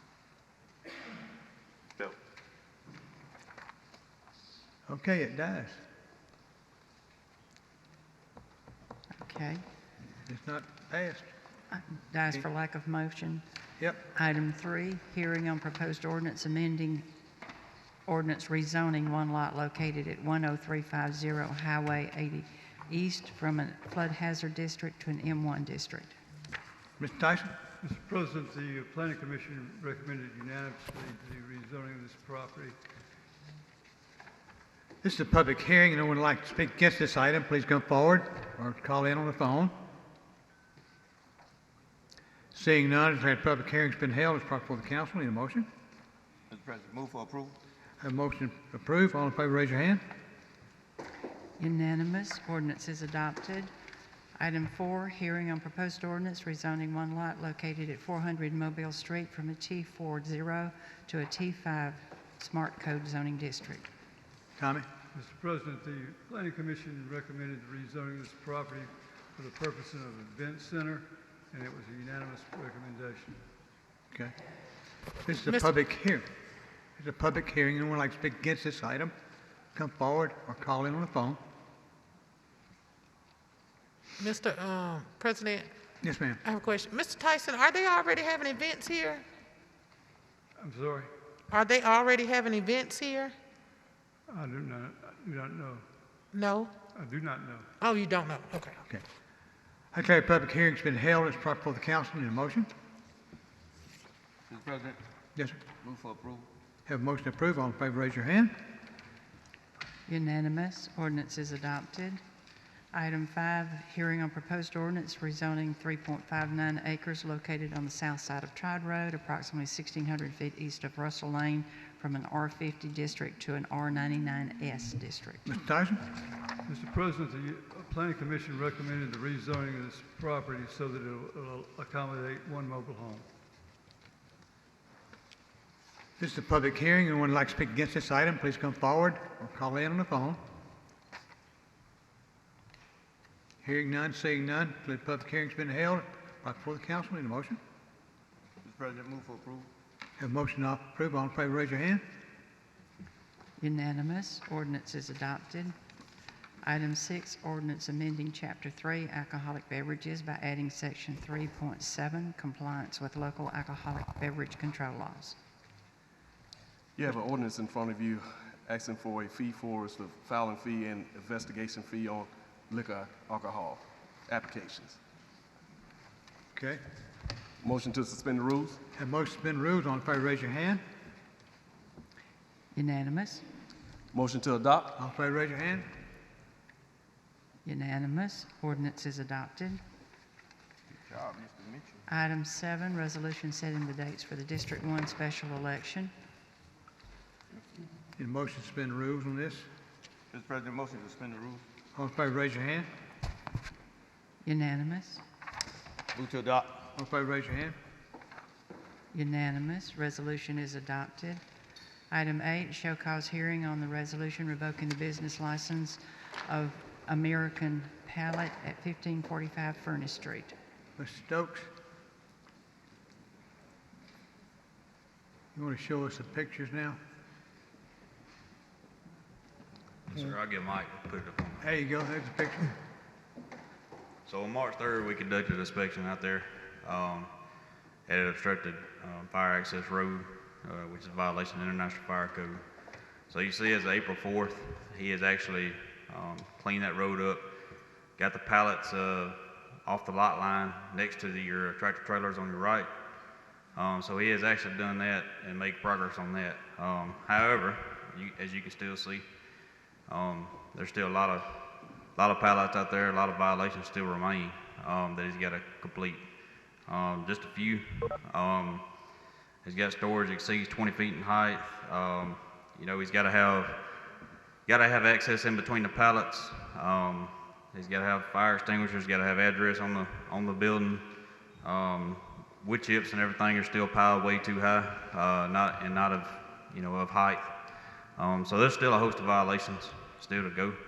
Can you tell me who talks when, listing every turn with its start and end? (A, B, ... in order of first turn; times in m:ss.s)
0:04.8-0:05.8 A
0:09.1-0:09.6 B
0:10.2-0:11.3 A
0:11.7-0:13.4 B
0:14.1-0:17.0 B
0:18.1-0:26.2 B
0:27.0-0:27.5 A
0:27.8-0:32.8 C
0:35.0-0:39.7 A
0:42.5-0:45.7 A
0:46.5-0:47.6 D
0:48.0-0:50.0 A
0:51.6-0:53.7 B
0:54.4-1:03.9 B
1:04.6-1:04.9 A
1:05.1-1:13.4 C
1:15.2-1:16.3 A
1:17.0-1:19.1 A
1:19.7-1:21.4 A
1:24.2-1:25.7 E
1:26.0-1:26.4 A
1:26.4-1:29.2 E
1:30.6-1:31.1 C
1:31.5-1:33.4 E
1:34.3-1:35.8 C
1:36.3-1:36.7 E
1:36.9-1:37.7 C
1:37.8-1:38.8 E
1:39.9-1:42.7 A
1:44.5-1:45.0 D
1:45.4-1:45.6 A
1:45.7-1:46.5 D
1:46.8-1:48.5 A
1:50.1-1:52.2 B
1:52.9-2:05.5 B
2:05.5-2:06.0 A
2:06.7-2:13.2 C
2:16.2-2:20.4 A
2:23.6-2:27.6 A
2:28.6-2:29.7 D
2:30.2-2:32.0 A
2:33.6-2:35.7 B
2:36.6-2:45.4 B
2:47.0-2:55.0 F
2:56.5-2:56.8 A
2:57.6-2:58.8 F
2:58.9-3:00.8 A
3:02.7-3:03.4 B
3:04.1-3:05.0 F
3:05.0-3:05.9 A
3:07.6-3:09.8 B
3:11.0-3:12.0 D
3:12.1-3:16.1 B
3:18.2-3:19.6 A
3:20.3-3:21.7 D
3:21.9-3:22.9 A
3:24.4-3:25.2 B
3:26.1-3:26.9 D
3:27.0-3:27.7 A
3:29.1-3:31.4 B
3:32.1-3:40.5 B
3:41.0-3:41.7 A
3:45.5-3:47.0 A
3:50.1-3:51.6 G
3:51.6-3:52.8 A
3:54.2-3:57.3 G
3:58.1-4:02.6 G
4:03.3-4:07.4 G
4:08.2-4:12.9 G
4:13.8-4:19.2 G
4:20.1-4:21.6 G
4:22.2-4:26.2 G
4:26.9-4:28.8 G
4:29.6-4:33.8 G
4:34.6-4:41.0 G
4:41.6-4:47.5 G
4:48.2-4:50.8 G